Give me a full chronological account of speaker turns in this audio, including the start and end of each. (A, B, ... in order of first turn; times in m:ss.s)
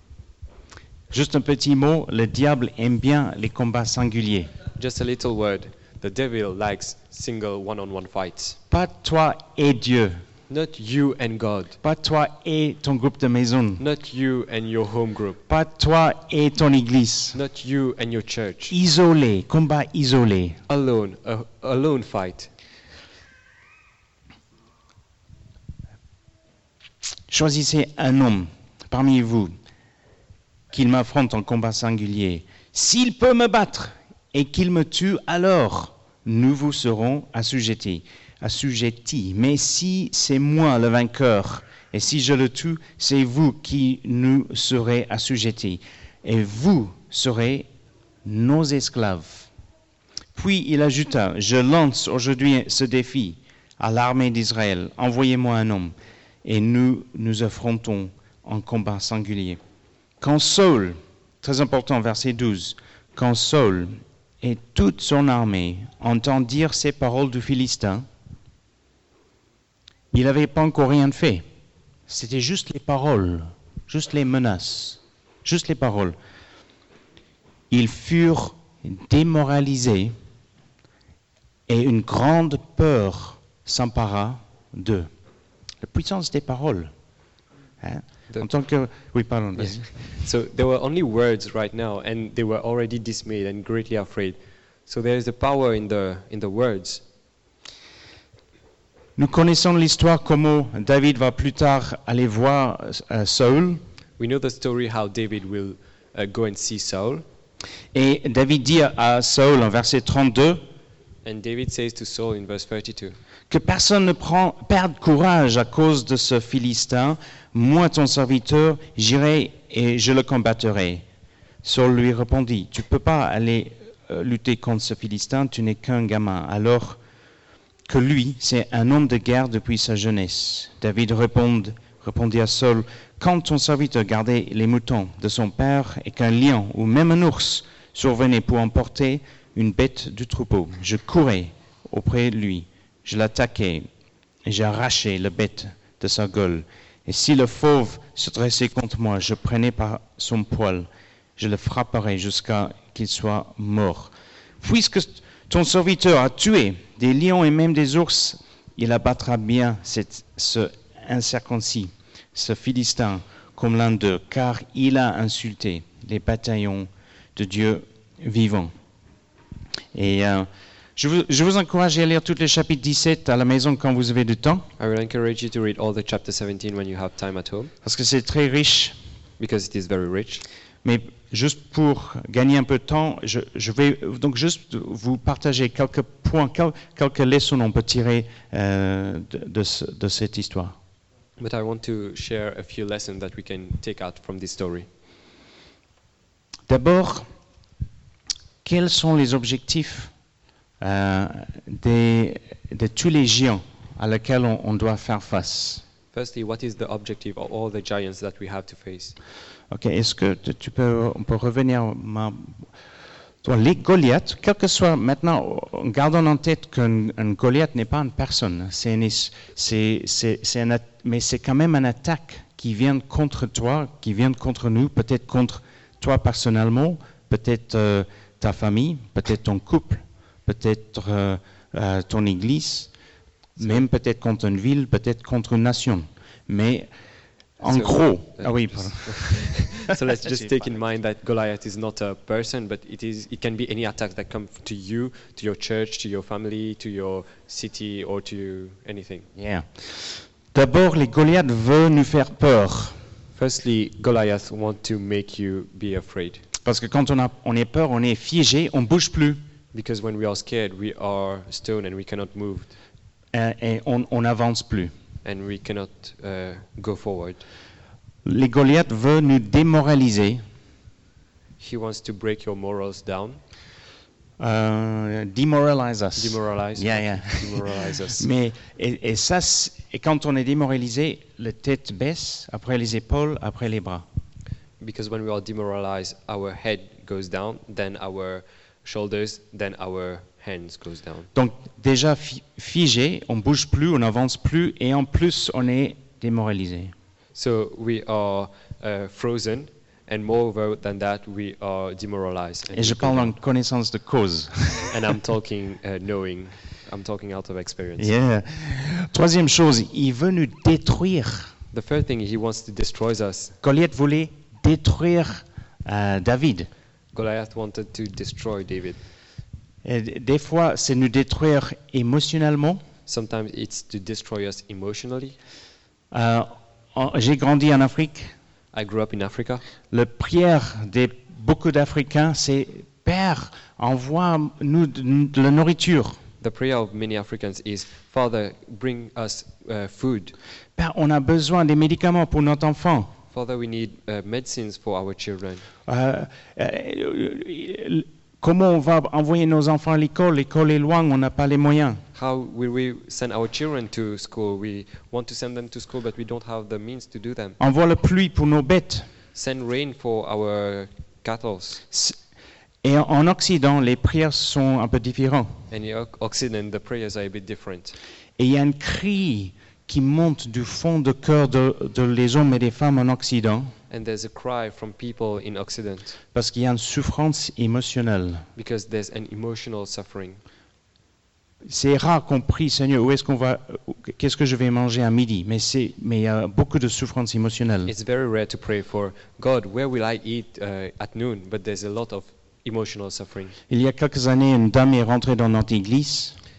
0:01.1-0:04.5 A
0:04.8-0:08.6 B
0:08.7-0:10.2 A
0:10.5-0:11.8 B
0:11.8-0:13.8 A
0:13.8-0:15.4 B
0:15.5-0:17.4 A
0:17.3-0:18.8 B
0:18.7-0:20.6 A
0:20.7-0:22.5 B
0:27.3-0:29.5 A
0:30.7-0:47.7 A
0:48.2-0:49.5 A
0:50.4-0:55.9 A
0:56.4-0:59.6 A
1:00.2-1:08.0 A
1:10.1-1:11.4 A
1:12.1-1:16.2 A
1:17.7-1:20.1 A
1:21.7-1:25.1 A
1:25.8-1:26.9 A
1:27.8-1:29.9 A
1:29.6-1:37.0 B
1:39.2-1:43.8 A
1:44.2-1:47.2 B
1:47.9-1:50.6 A
1:51.2-1:53.2 B
1:53.5-2:01.0 A
2:01.6-2:07.0 A
2:07.9-2:23.9 A
2:24.5-2:48.7 A
2:49.9-2:54.7 A
2:54.8-2:57.7 B
2:57.8-2:59.0 A
2:59.4-3:00.4 B
3:00.8-3:10.8 A
3:11.4-3:14.9 B
3:16.7-3:17.3 A
3:18.6-3:20.1 A
3:20.8-3:25.8 A
3:26.1-3:29.2 B
3:29.7-3:32.6 A
3:33.4-3:52.9 A
3:53.6-3:56.9 A
3:57.6-3:59.7 A
3:57.6-4:09.3 B
4:00.2-4:00.5 A
4:09.4-4:13.0 A
4:13.4-4:16.4 B
4:16.6-4:19.4 A
4:19.7-4:22.7 B
4:23.3-4:24.9 A
4:25.2-4:27.4 B
4:28.2-4:30.4 A
4:31.6-4:33.4 B
4:34.4-4:44.0 A
4:36.2-4:38.3 B
4:44.8-4:51.3 B
4:51.4-4:56.9 A
4:57.4-5:03.4 B
5:02.7-5:05.0 A
5:04.9-5:08.1 B
5:08.0-5:11.5 A
5:11.7-5:13.6 B
5:13.6-5:16.7 A
5:17.1-5:19.0 B
5:19.8-5:22.8 A
5:23.1-5:25.4 B
5:26.1-5:28.3 A
5:28.7-5:29.6 B
5:29.9-5:36.2 A
5:36.4-5:40.4 B
5:40.8-5:43.1 A
5:43.3-5:45.7 B
5:45.9-5:52.0 A
5:52.2-5:57.6 B
5:57.6-5:59.1 A
5:59.4-6:01.8 B
6:01.9-6:02.2 A
6:02.8-6:05.6 A
6:05.7-6:08.0 B
6:08.4-6:13.7 A
6:13.9-6:16.2 B
6:16.3-6:18.4 A
6:18.6-6:20.4 B
6:21.6-6:27.9 A
6:27.9-6:33.6 B
6:33.7-6:36.4 A